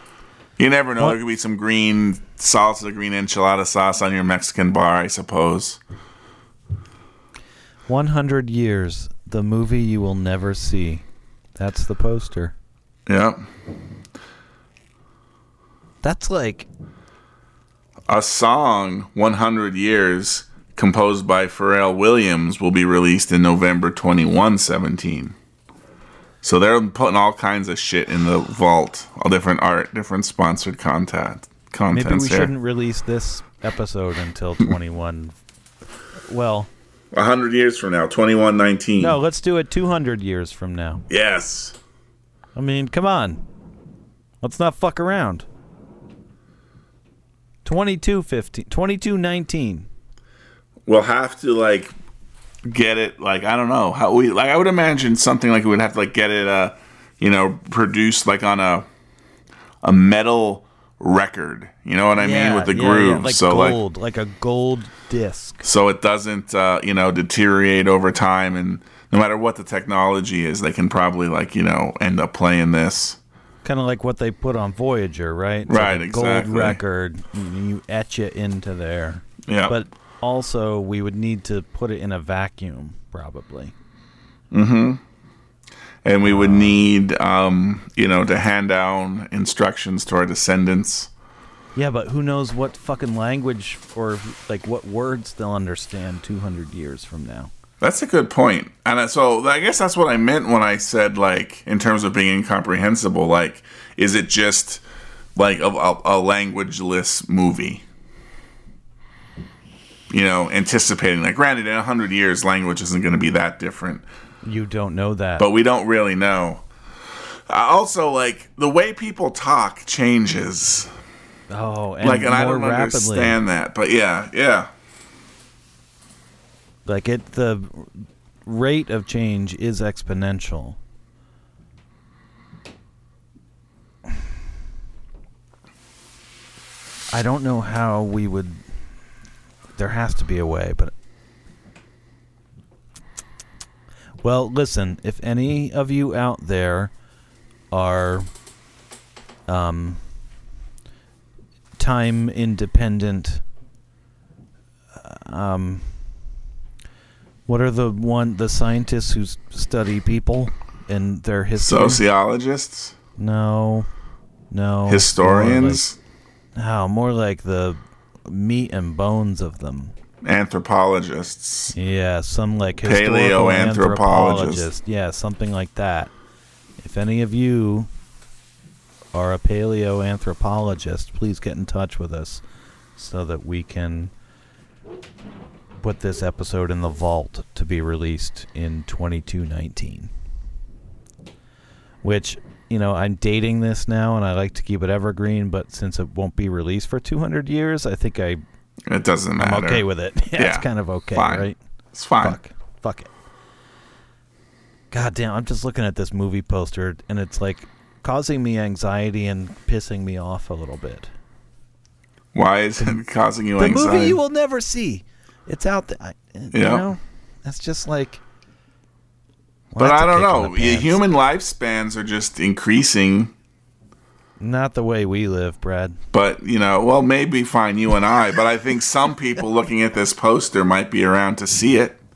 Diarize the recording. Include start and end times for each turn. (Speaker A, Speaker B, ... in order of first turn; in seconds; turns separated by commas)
Speaker A: 0.6-5.8, Speaker B: 7.9-11.1, Speaker B: 11.6-12.6, Speaker A: 13.1-13.4, Speaker B: 16.0-16.7, Speaker A: 18.1-25.4, Speaker A: 26.4-32.5, Speaker B: 31.9-35.4, Speaker B: 36.3-36.7, Speaker A: 37.1-39.2, Speaker B: 39.0-41.0, Speaker A: 41.1-41.8, Speaker B: 42.5-43.4, Speaker B: 44.4-45.5, Speaker B: 47.6-49.9, Speaker A: 50.9-51.9, Speaker A: 52.7-58.9, Speaker A: 59.8-63.8, Speaker B: 62.1-65.6, Speaker A: 65.6-73.2, Speaker B: 73.6-83.8, Speaker A: 75.7-76.8, Speaker A: 79.5-79.8, Speaker A: 84.5-85.0, Speaker A: 86.0-91.1, Speaker B: 86.2-86.9, Speaker B: 91.8-97.5, Speaker A: 97.8-104.8, Speaker A: 105.4-107.8, Speaker A: 110.1-114.0, Speaker B: 114.4-115.5, Speaker A: 115.4-116.6, Speaker A: 117.5-120.9, Speaker B: 121.5-123.4, Speaker A: 122.0-124.7, Speaker B: 126.9-130.8, Speaker B: 137.1-138.6, Speaker B: 139.8-140.9, Speaker B: 144.2-146.9, Speaker B: 147.7-148.3, Speaker B: 149.5-150.0, Speaker B: 151.8-153.4, Speaker B: 155.0-155.9, Speaker B: 157.5-162.0, Speaker A: 161.6-162.9, Speaker B: 163.2-163.9, Speaker B: 164.5-165.8, Speaker A: 164.9-166.0, Speaker B: 166.6-169.9, Speaker A: 170.2-171.8, Speaker B: 171.7-176.1, Speaker A: 172.8-174.7, Speaker B: 176.8-177.9, Speaker B: 179.1-182.4, Speaker B: 183.0-184.1, Speaker B: 185.8-190.1, Speaker B: 192.0-198.4, Speaker A: 198.9-202.4, Speaker B: 199.4-201.6, Speaker B: 202.2-203.1, Speaker B: 204.9-211.1, Speaker A: 212.3-214.2, Speaker B: 213.6-218.2, Speaker A: 216.5-216.9, Speaker B: 219.7-221.0, Speaker A: 219.8-223.3, Speaker B: 224.4-226.0, Speaker A: 226.1-232.0